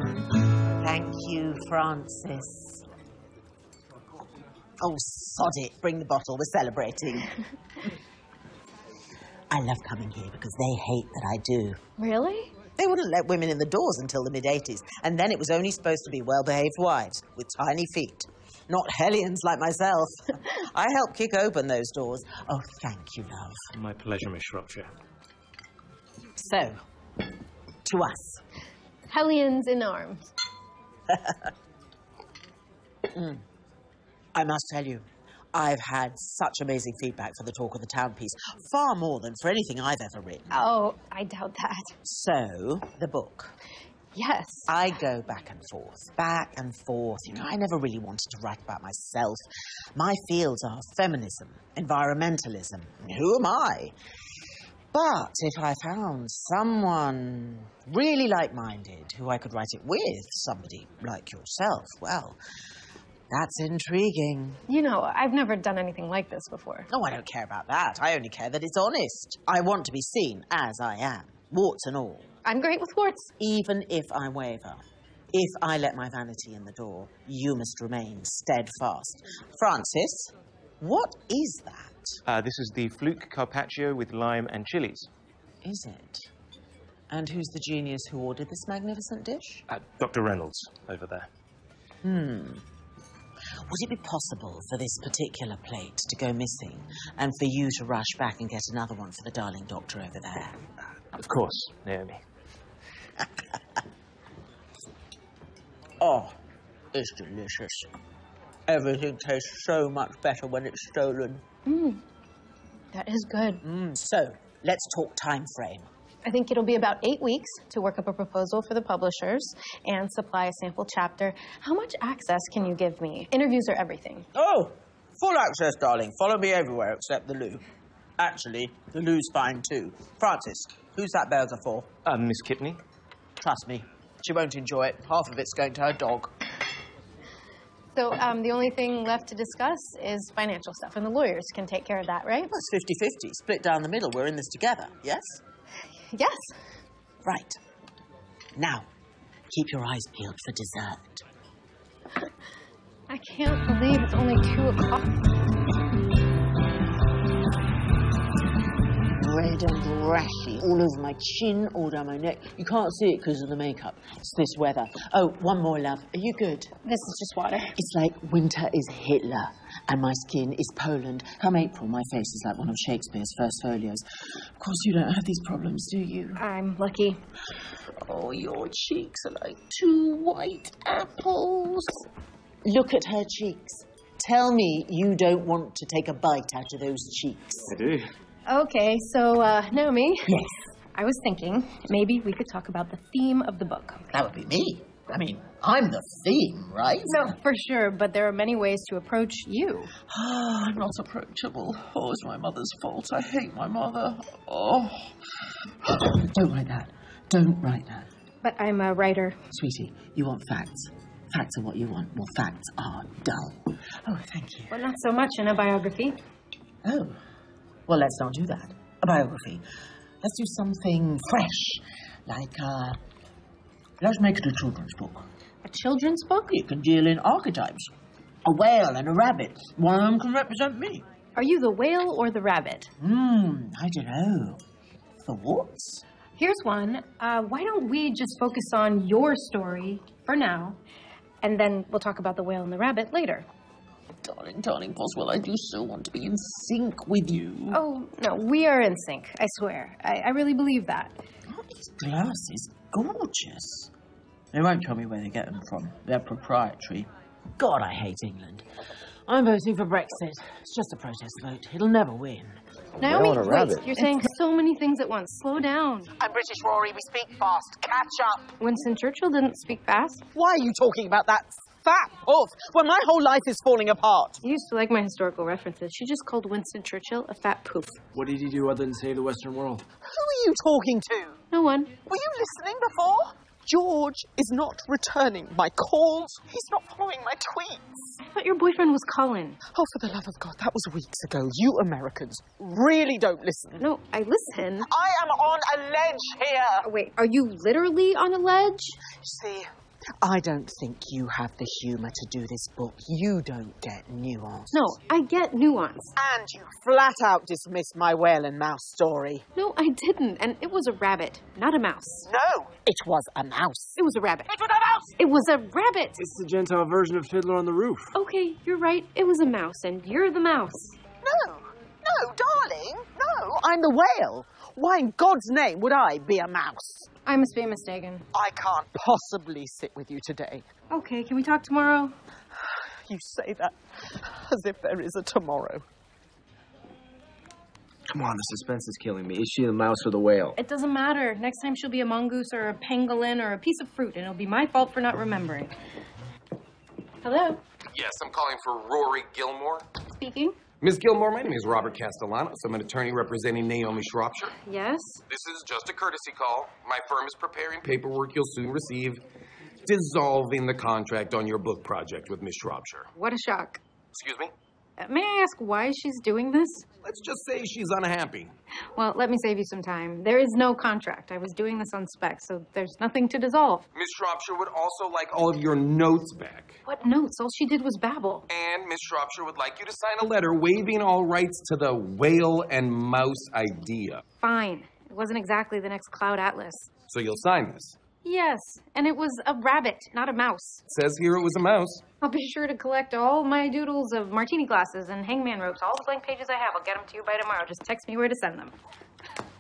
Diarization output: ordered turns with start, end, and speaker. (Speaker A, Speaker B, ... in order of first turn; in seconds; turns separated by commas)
Speaker A: 0.8-2.8, Speaker A: 4.8-7.4, Speaker A: 9.5-11.8, Speaker B: 12.0-12.5, Speaker A: 12.8-23.6, Speaker C: 23.8-24.9, Speaker A: 26.4-26.8, Speaker A: 27.9-28.4, Speaker B: 29.1-30.3, Speaker A: 31.1-31.5, Speaker A: 33.1-33.4, Speaker A: 34.4-40.7, Speaker B: 40.5-41.9, Speaker A: 42.0-43.5, Speaker B: 44.1-44.7, Speaker A: 44.7-53.9, Speaker A: 54.9-62.4, Speaker A: 63.3-64.6, Speaker B: 64.7-66.9, Speaker A: 66.9-72.3, Speaker B: 72.5-73.3, Speaker A: 73.4-74.8, Speaker A: 75.3-82.2, Speaker C: 82.3-85.1, Speaker A: 85.6-86.3, Speaker A: 87.1-89.6, Speaker C: 89.7-91.3, Speaker A: 92.0-92.6, Speaker A: 93.7-100.6, Speaker C: 101.2-102.2, Speaker A: 106.0-106.3, Speaker A: 106.9-107.9, Speaker A: 108.7-111.4, Speaker B: 111.7-112.0, Speaker B: 112.9-113.6, Speaker A: 113.6-115.9, Speaker B: 116.2-124.3, Speaker A: 124.3-127.6, Speaker A: 128.2-131.9, Speaker C: 132.1-132.8, Speaker A: 133.4-136.3, Speaker B: 137.9-142.5, Speaker A: 142.5-145.4, Speaker B: 146.1-146.5, Speaker A: 147.2-147.6, Speaker A: 148.6-148.9, Speaker A: 149.5-151.2, Speaker B: 153.1-155.2, Speaker A: 159.2-166.8, Speaker B: 166.8-167.8, Speaker A: 167.8-174.0, Speaker A: 174.6-176.4, Speaker B: 176.4-177.2, Speaker A: 178.0-182.0, Speaker A: 182.7-187.8, Speaker B: 188.5-190.3, Speaker A: 190.3-190.6, Speaker B: 190.9-194.1, Speaker A: 194.1-197.3, Speaker B: 197.1-199.9, Speaker A: 200.1-205.2, Speaker A: 205.8-208.1, Speaker B: 208.4-209.4, Speaker A: 209.5-214.8, Speaker B: 214.7-216.2, Speaker A: 216.8-217.2, Speaker A: 217.9-219.7, Speaker A: 220.2-223.0, Speaker A: 224.0-225.3, Speaker B: 225.7-226.4, Speaker A: 226.2-227.9, Speaker A: 228.4-231.1, Speaker B: 231.4-232.9, Speaker A: 233.0-234.6, Speaker A: 235.2-236.0, Speaker B: 236.4-240.8, Speaker B: 241.4-243.5, Speaker A: 244.2-247.8, Speaker B: 247.7-251.1, Speaker A: 251.5-253.9, Speaker A: 254.5-258.6, Speaker A: 259.3-262.6, Speaker B: 263.0-266.1, Speaker A: 266.2-268.5, Speaker B: 268.6-270.2, Speaker A: 270.3-274.4, Speaker B: 274.4-278.0, Speaker D: 278.1-279.9, Speaker A: 280.1-281.4, Speaker B: 281.5-281.9, Speaker A: 282.1-288.2, Speaker B: 288.2-289.6, Speaker A: 289.7-293.9, Speaker B: 293.8-294.9, Speaker A: 294.9-296.9, Speaker B: 296.8-299.0, Speaker A: 299.1-299.7, Speaker A: 300.2-304.9, Speaker B: 304.7-306.1, Speaker A: 306.2-309.4, Speaker B: 309.6-312.3, Speaker A: 312.3-315.1, Speaker B: 314.0-314.5, Speaker B: 315.2-316.2, Speaker D: 316.2-318.1, Speaker B: 318.1-321.0, Speaker A: 321.2-327.1, Speaker B: 327.3-328.2, Speaker A: 328.3-330.7, Speaker B: 330.9-332.1, Speaker A: 333.1-335.8, Speaker D: 338.1-340.6, Speaker B: 340.6-345.7, Speaker B: 347.2-347.6, Speaker E: 347.9-349.9, Speaker B: 350.1-350.6, Speaker E: 350.8-354.6, Speaker B: 354.6-355.2, Speaker E: 355.3-359.2, Speaker E: 359.9-363.1, Speaker B: 363.2-363.8, Speaker E: 364.1-364.5, Speaker B: 365.0-366.9, Speaker E: 367.0-368.5, Speaker B: 369.0-373.9, Speaker E: 373.9-376.8, Speaker B: 376.9-378.5, Speaker E: 378.5-384.2, Speaker B: 384.4-386.9, Speaker E: 387.1-388.0, Speaker B: 388.2-390.9, Speaker E: 390.9-392.0, Speaker B: 392.2-398.8